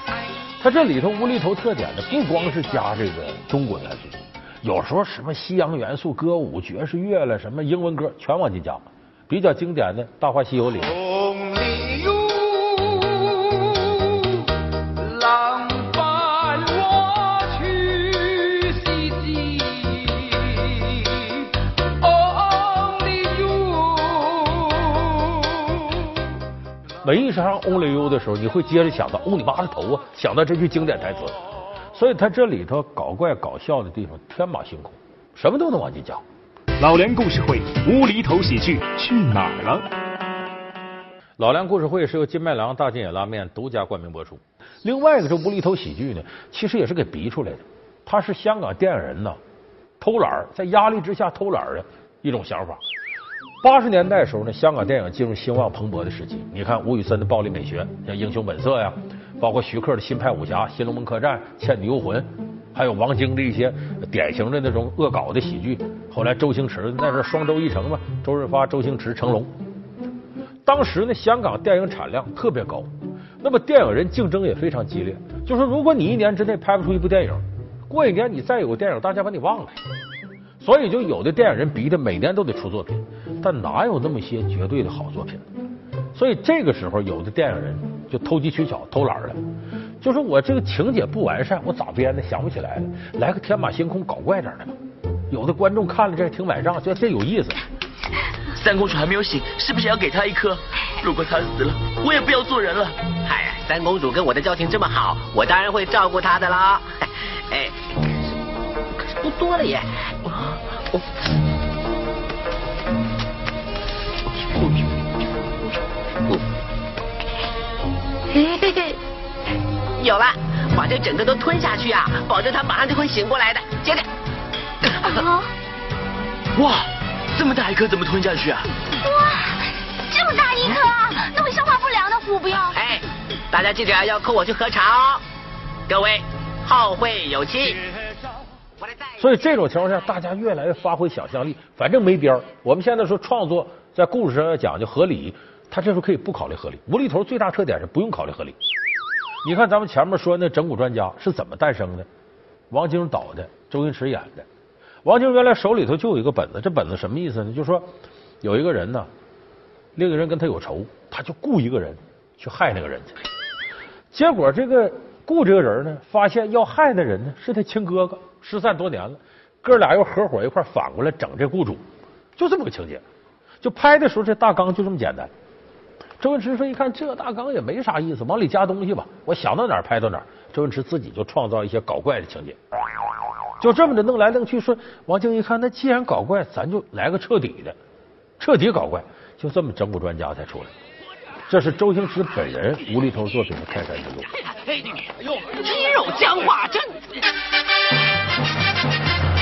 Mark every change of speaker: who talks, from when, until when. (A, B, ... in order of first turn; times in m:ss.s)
0:00.6-0:11.0 A
0:15.4-0:16.9 B
0:18.4-0:18.8 B
0:22.7-0:23.8 B
0:27.0-0:31.4 A
0:31.9-0:36.2 A
0:36.8-0:39.8 C
0:41.4-0:49.4 A
0:50.0-0:52.8 A
0:53.6-1:09.5 A
1:10.6-1:12.9 A
1:13.4-1:19.8 A
1:20.6-1:25.5 A
1:26.2-1:29.4 A
1:30.0-1:34.8 A
1:35.3-1:37.6 A
1:38.5-1:43.0 D
1:43.2-1:47.8 E
1:49.0-1:51.0 E
1:58.3-1:59.0 F
2:00.0-2:04.1 E
2:05.0-2:05.5 F
2:06.6-2:08.7 D
2:09.0-2:12.8 F
2:12.7-2:15.2 E
2:15.9-2:17.8 E
2:19.2-2:28.6 A
2:29.4-2:32.1 A
2:32.7-2:34.5 A
2:35.0-2:37.9 A
2:38.4-2:39.1 A
2:40.0-2:43.1 A
2:44.1-2:51.8 A
2:52.4-2:53.0 A
2:53.6-2:55.3 A
2:56.2-3:02.6 A
3:03.6-3:07.8 A
3:08.4-3:10.7 A
3:11.5-3:14.3 A
3:15.5-3:17.0 B